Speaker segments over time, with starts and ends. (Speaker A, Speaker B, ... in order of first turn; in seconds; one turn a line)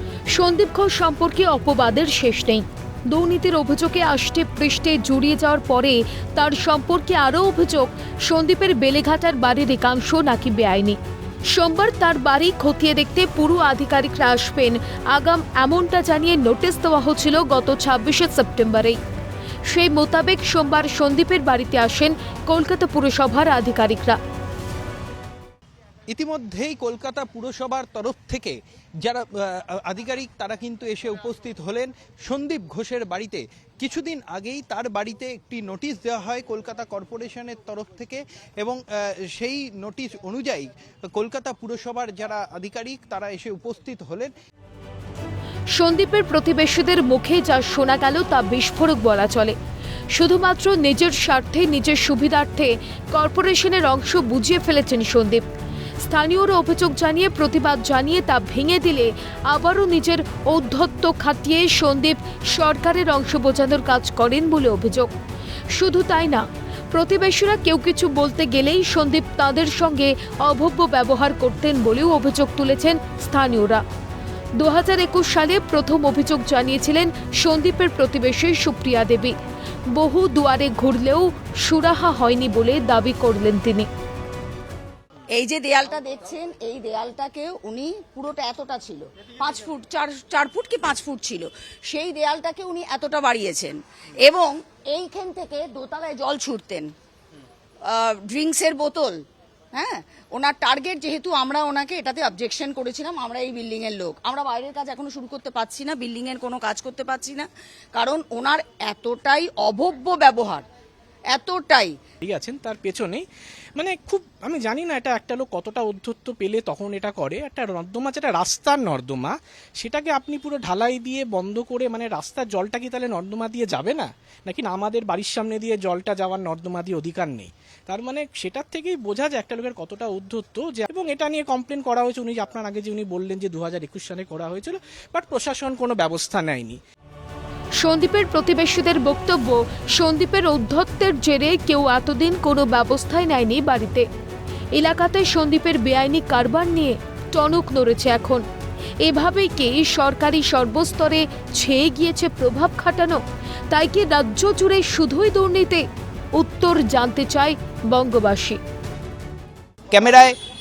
Speaker A: 0.3-19.0
Speaker A: 19.7-24.2
Speaker B: 26.1-44.3
Speaker A: 45.7-49.6
Speaker A: 50.1-55.5
Speaker A: 56.0-65.1
Speaker A: 65.7-73.8
Speaker A: 74.6-79.4
Speaker A: 79.9-83.9
Speaker C: 85.3-96.9
Speaker C: 97.9-99.2
Speaker C: 99.7-110.6
Speaker C: 111.3-111.9
Speaker D: 112.2-113.2
Speaker D: 113.8-136.8
Speaker A: 137.8-144.1
Speaker A: 144.7-148.4
Speaker A: 149.0-158.6
Speaker B: 159.9-160.3